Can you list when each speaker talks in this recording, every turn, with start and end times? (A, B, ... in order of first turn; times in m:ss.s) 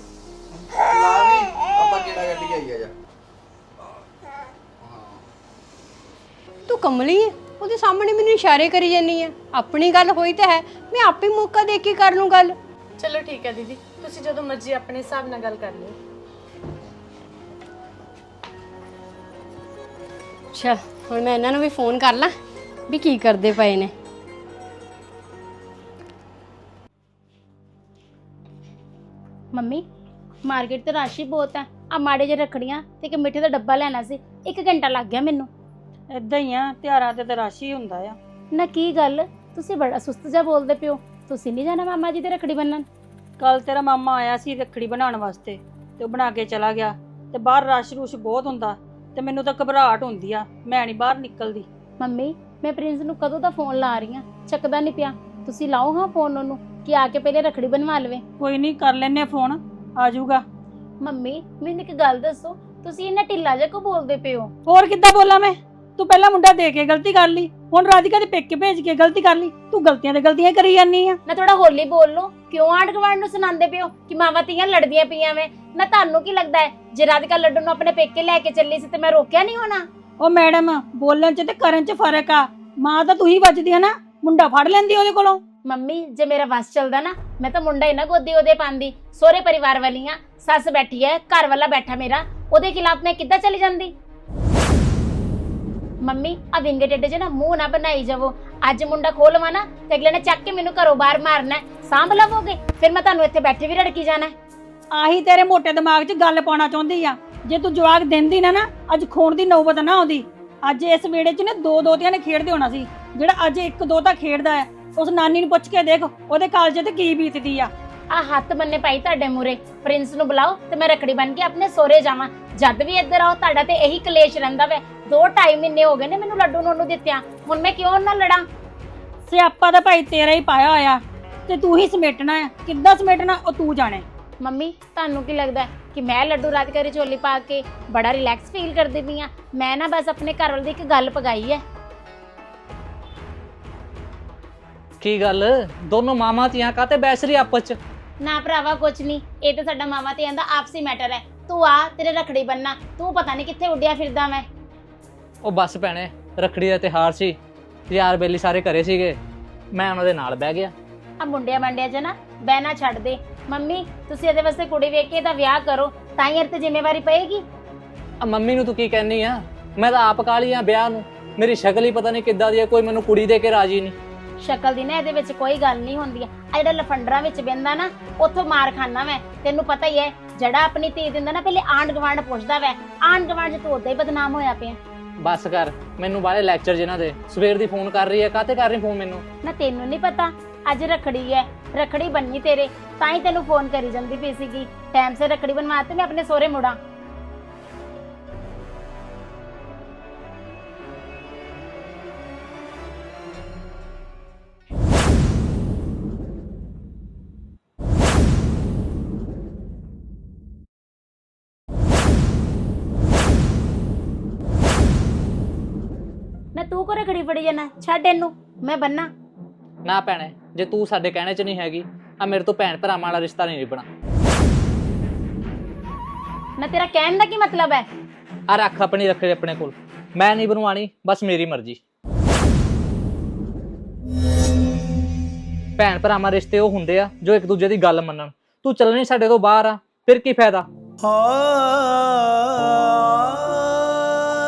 0:00.8-0:02.9 A
0:04.8-0:05.2 A
0:06.7-0:12.6 B
0:13.0-0:15.9 C
0:20.5-0:22.3 B
0:22.9-0:23.9 B
0:29.5-0:29.8 D
0:30.5-0:35.5 D
0:36.1-0:38.2 E
0:38.5-0:42.9 D
0:43.4-0:51.7 E
0:52.0-0:58.2 D
0:58.4-1:00.4 E
1:01.0-1:04.5 D
1:04.7-1:11.2 E
1:11.3-1:19.8 D
1:20.2-1:25.4 E
1:25.7-1:33.9 D
1:36.0-1:44.3 D
1:44.9-1:57.7 E
1:58.1-2:08.4 D
2:09.3-2:14.0 E
2:14.4-2:21.6 D
2:25.0-2:27.8 F
2:28.2-2:34.5 D
2:35.4-2:37.4 F
2:37.9-2:39.2 F
2:39.7-2:40.7 F
2:41.2-2:47.4 D
2:48.2-2:54.0 F
2:54.4-3:04.8 D
3:05.2-3:09.2 F
3:09.4-3:16.8 D
3:36.6-3:39.1 D
3:39.8-3:43.9 F
3:46.6-3:47.9 D
3:48.5-3:51.8 F
3:55.8-4:00.7 F